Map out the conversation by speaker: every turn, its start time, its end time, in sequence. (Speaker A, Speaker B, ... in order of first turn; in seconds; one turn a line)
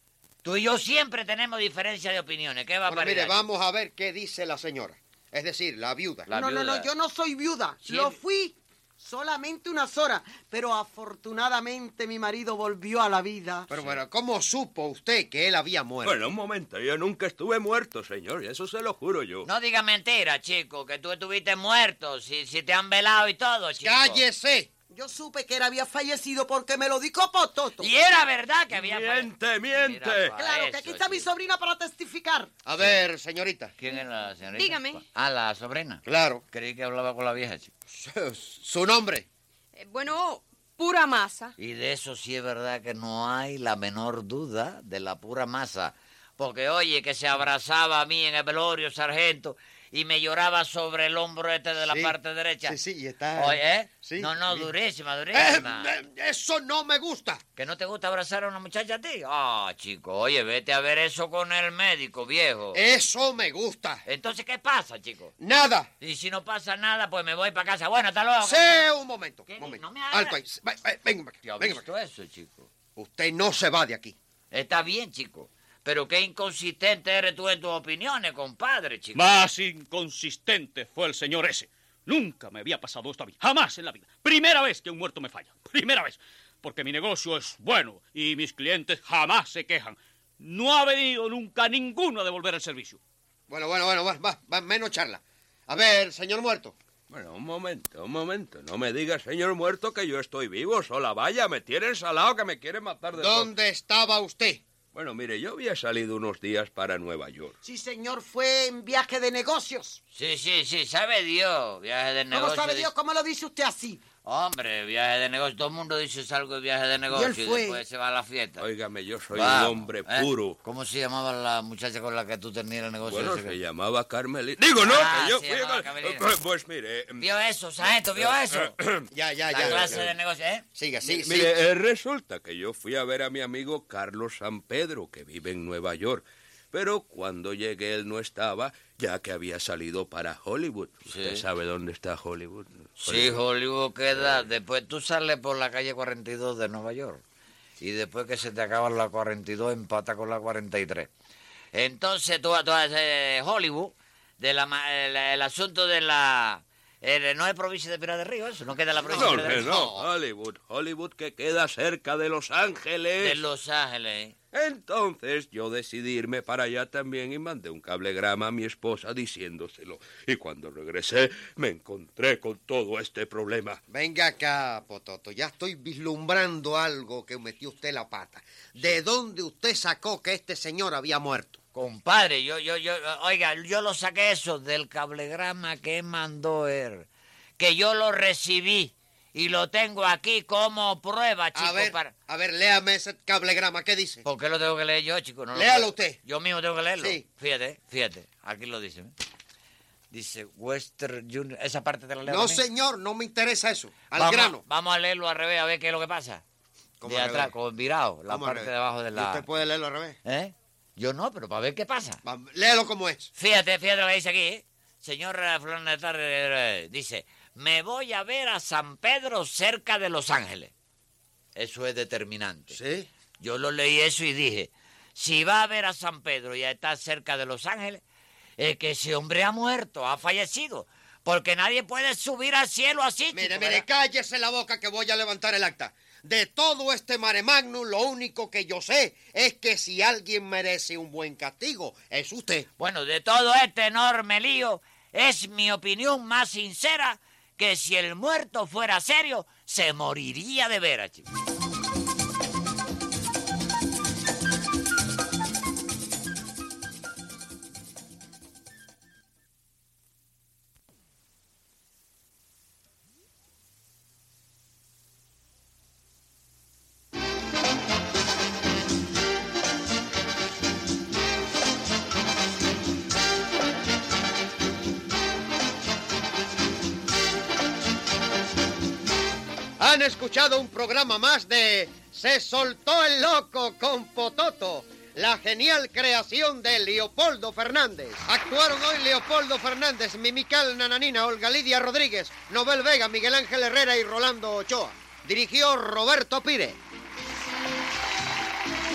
Speaker A: 0.4-3.5
Speaker B: 2.8-6.3
Speaker A: 6.3-6.9
Speaker C: 6.3-13.7
Speaker A: 7.8-8.2
Speaker B: 13.7-16.2
Speaker D: 16.0-19.5
Speaker A: 19.4-24.2
Speaker B: 23.8-24.7
Speaker C: 24.9-27.9
Speaker A: 27.8-31.3
Speaker D: 28.7-30.4
Speaker C: 30.3-32.5
Speaker B: 32.6-33.7
Speaker A: 33.8-37.7
Speaker E: 34.5-35.0
Speaker B: 36.0-36.4
Speaker B: 37.9-39.2
Speaker E: 39.8-41.5
Speaker A: 41.6-52.8
Speaker B: 51.8-52.1
Speaker B: 52.6-54.7
Speaker A: 53.4-55.9
Speaker B: 55.3-57.4
Speaker A: 57.5-62.8
Speaker B: 62.7-64.0
Speaker A: 64.0-65.3
Speaker B: 65.4-65.9
Speaker A: 66.0-68.8
Speaker B: 68.4-71.8
Speaker A: 69.5-70.4
Speaker A: 71.4-72.7
Speaker B: 73.0-74.1
Speaker A: 74.5-79.4
Speaker F: 79.1-93.0
Speaker B: 93.5-96.7
Speaker D: 97.1-103.5
Speaker B: 103.1-104.6
Speaker D: 104.9-107.5
Speaker C: 107.6-110.0
Speaker A: 110.1-112.9
Speaker C: 112.3-114.0
Speaker A: 114.2-118.6
Speaker C: 117.1-117.8
Speaker D: 118.6-120.6
Speaker A: 119.3-123.6
Speaker D: 123.0-127.3
Speaker A: 124.8-126.3
Speaker A: 127.2-128.7
Speaker D: 127.8-130.1
Speaker B: 129.1-129.9
Speaker A: 129.5-130.6
Speaker B: 130.7-131.5
Speaker D: 131.0-143.4
Speaker A: 141.1-141.4
Speaker A: 143.0-147.2
Speaker D: 144.1-144.5
Speaker A: 147.8-151.1
Speaker A: 151.7-159.7
Speaker B: 159.1-160.1
Speaker D: 159.1-163.4
Speaker A: 163.2-164.3
Speaker D: 164.5-173.8
Speaker B: 173.9-181.6
Speaker A: 181.7-192.1
Speaker B: 191.5-194.2
Speaker A: 194.2-199.1
Speaker B: 195.5-196.2
Speaker B: 197.0-197.2
Speaker A: 200.1-202.6
Speaker B: 202.2-204.6
Speaker A: 204.1-206.4
Speaker B: 207.0-207.5
Speaker A: 207.0-209.5
Speaker B: 208.3-210.2
Speaker A: 210.2-212.2
Speaker B: 212.2-213.3
Speaker A: 213.3-220.7
Speaker A: 221.5-222.8
Speaker B: 222.7-223.1
Speaker A: 223.4-228.0
Speaker A: 228.6-233.8
Speaker B: 233.3-242.7
Speaker A: 242.8-251.2
Speaker B: 279.8-296.8